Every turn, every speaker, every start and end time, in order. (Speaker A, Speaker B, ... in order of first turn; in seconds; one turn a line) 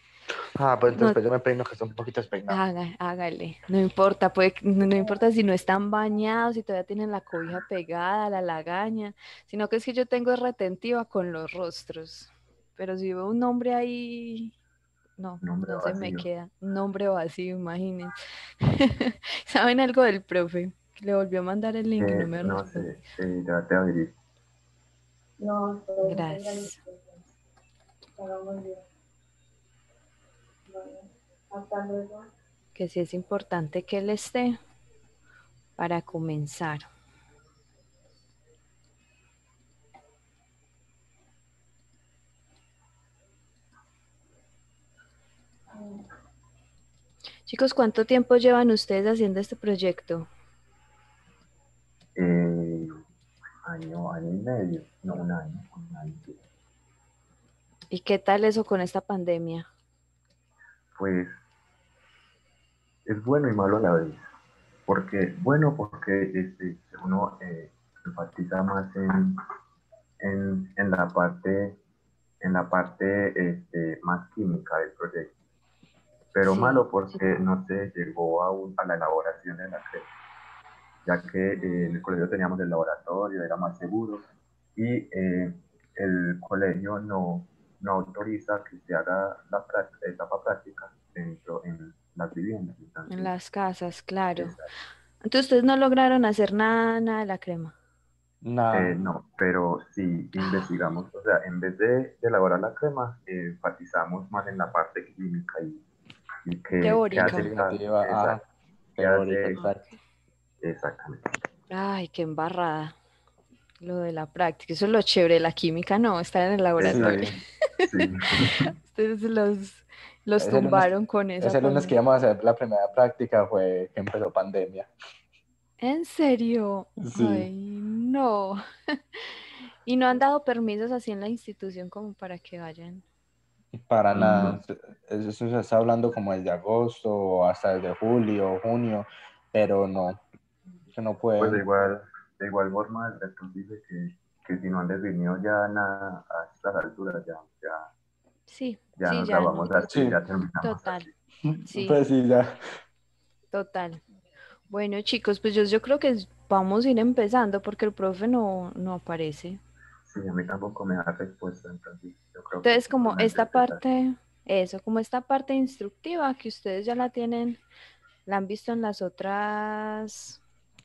Speaker A: 0.6-2.6
Speaker B: 0.9-1.2
Speaker B: 2.5-14.6
Speaker B: 15.2-22.9
Speaker C: 15.4-16.3
Speaker C: 22.0-24.2
Speaker D: 25.4-27.2
Speaker B: 26.0-26.8
Speaker D: 28.2-28.8
Speaker D: 30.7-32.3
Speaker B: 32.8-34.6
Speaker B: 35.8-36.9
Speaker B: 47.5-50.3
Speaker C: 52.1-53.0
Speaker C: 53.6-56.4
Speaker B: 57.9-59.7
Speaker C: 61.0-61.3
Speaker C: 63.1-64.2
Speaker C: 64.9-69.4
Speaker C: 70.2-71.8
Speaker C: 72.4-75.3
Speaker C: 76.3-80.1
Speaker B: 76.5-77.2
Speaker C: 81.0-93.3
Speaker B: 81.6-82.0
Speaker B: 93.1-94.5
Speaker C: 94.4-94.7
Speaker B: 95.2-97.8
Speaker A: 98.4-99.0
Speaker C: 98.7-105.8
Speaker B: 100.4-100.6
Speaker C: 106.4-108.4
Speaker B: 106.8-107.5
Speaker A: 107.2-108.4
Speaker A: 109.0-109.8
Speaker C: 109.0-109.6
Speaker B: 109.5-109.9
Speaker C: 110.6-111.3
Speaker B: 111.7-113.0
Speaker B: 113.8-117.2
Speaker C: 116.8-118.7
Speaker A: 116.8-117.4
Speaker B: 118.7-121.9
Speaker A: 120.4-124.9
Speaker B: 125.8-128.6
Speaker A: 127.0-127.5
Speaker B: 129.9-133.0
Speaker A: 133.8-140.2
Speaker C: 134.1-134.6
Speaker A: 140.9-141.6
Speaker C: 141.4-147.9
Speaker B: 148.5-149.9
Speaker C: 149.0-151.1
Speaker A: 149.9-150.2
Speaker B: 150.6-151.1
Speaker A: 151.5-152.6
Speaker B: 151.7-152.0
Speaker B: 153.5-154.0
Speaker B: 154.7-159.6
Speaker C: 160.1-163.8
Speaker B: 162.6-167.6
Speaker B: 168.3-170.4